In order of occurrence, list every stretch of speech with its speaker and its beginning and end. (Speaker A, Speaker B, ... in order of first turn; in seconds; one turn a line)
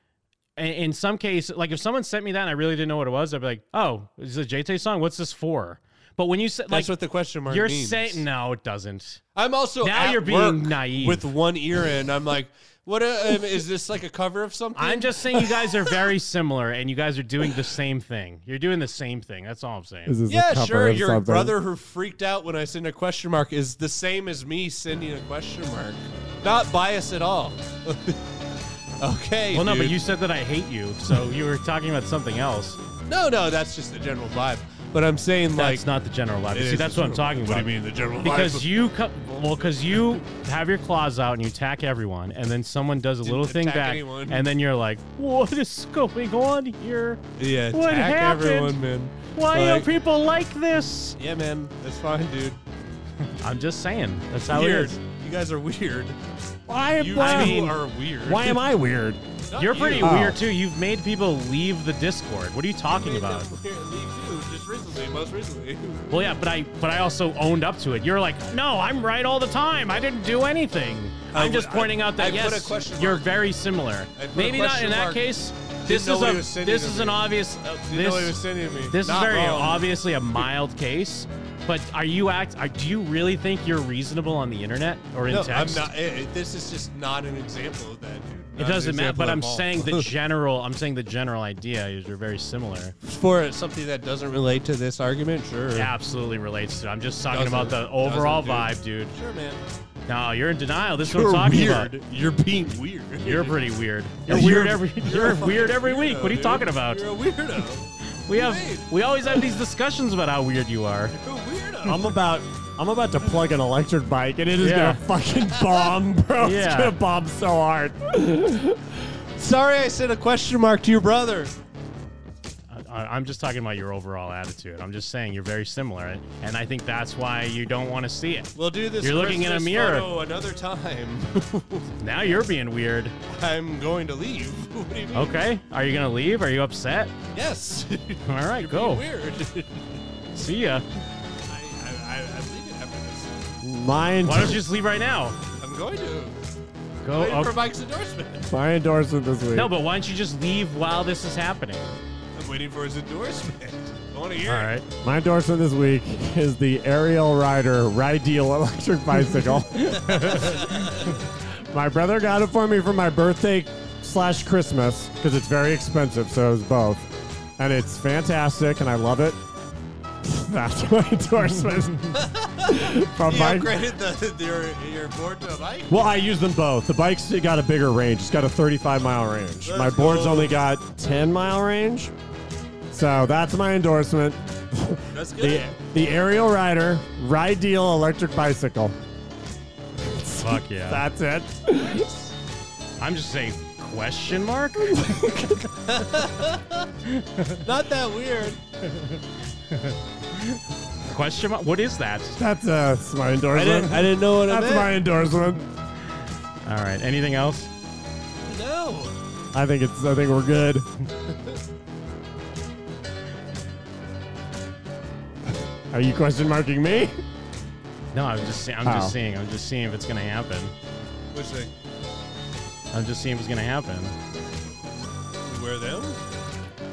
Speaker A: 0.6-6.9
Speaker B: 6.7-8.2
Speaker A: 7.5-9.2
Speaker B: 9.3-15.9
Speaker A: 9.8-11.2
Speaker A: 14.8-20.1
Speaker C: 20.1-21.6
Speaker B: 20.3-28.2
Speaker B: 29.0-30.0
Speaker A: 29.5-32.8
Speaker B: 33.1-35.8
Speaker A: 35.6-37.7
Speaker B: 36.5-38.7
Speaker A: 38.2-47.2
Speaker B: 39.9-40.2
Speaker B: 43.2-44.5
Speaker B: 47.4-49.9
Speaker A: 47.7-48.8
Speaker A: 49.3-51.2
Speaker B: 51.2-52.6
Speaker A: 53.4-55.0
Speaker B: 54.5-56.2
Speaker C: 56.7-59.2
Speaker B: 57.0-58.6
Speaker A: 57.1-57.7
Speaker B: 59.5-60.3
Speaker A: 59.6-63.5
Speaker C: 60.0-60.4
Speaker B: 62.9-66.2
Speaker A: 66.1-78.4
Speaker B: 71.3-73.3
Speaker B: 74.2-75.2
Speaker B: 75.8-77.3
Speaker B: 77.9-79.8
Speaker A: 78.9-85.9
Speaker B: 85.3-90.1
Speaker A: 88.6-92.9
Speaker B: 93.0-95.9
Speaker A: 95.7-99.1
Speaker B: 97.3-99.6
Speaker A: 100.1-101.9
Speaker B: 101.0-103.6
Speaker A: 103.2-107.0
Speaker B: 104.3-109.4
Speaker A: 108.3-111.2
Speaker B: 111.2-112.1
Speaker C: 111.8-118.8
Speaker A: 114.6-115.0
Speaker A: 116.4-117.0
Speaker B: 119.4-121.5
Speaker A: 122.7-130.1
Speaker B: 128.6-131.9
Speaker A: 132.0-133.1
Speaker B: 133.3-135.5
Speaker A: 135.1-137.1
Speaker B: 137.3-140.0
Speaker A: 138.2-139.0
Speaker A: 140.3-140.8
Speaker B: 141.5-143.3
Speaker C: 143.6-144.6
Speaker A: 144.2-145.4
Speaker B: 145.6-146.3
Speaker A: 147.0-147.5
Speaker B: 147.1-148.5
Speaker C: 148.5-149.7
Speaker A: 149.5-151.9
Speaker B: 152.3-154.7
Speaker A: 154.4-154.8
Speaker C: 155.0-160.6
Speaker A: 159.8-160.9
Speaker B: 160.2-161.1
Speaker C: 161.7-169.4
Speaker C: 170.2-173.7
Speaker B: 172.1-176.1
Speaker C: 175.9-182.1
Speaker B: 179.6-180.6
Speaker C: 182.9-188.9
Speaker B: 185.1-185.7
Speaker C: 190.0-192.1
Speaker A: 190.4-191.0
Speaker A: 193.0-195.1
Speaker C: 194.9-195.7
Speaker B: 195.8-196.9
Speaker A: 197.1-197.6
Speaker B: 197.6-198.6
Speaker A: 198.8-199.2
Speaker A: 199.7-202.4
Speaker C: 202.4-205.7
Speaker B: 203.5-205.0
Speaker A: 206.6-207.7
Speaker B: 208.4-209.1
Speaker C: 209.5-210.9
Speaker B: 211.3-211.6
Speaker C: 215.9-217.2
Speaker A: 218.1-220.7
Speaker C: 218.8-219.1
Speaker B: 221.3-221.7
Speaker A: 222.9-224.1
Speaker B: 225.4-226.2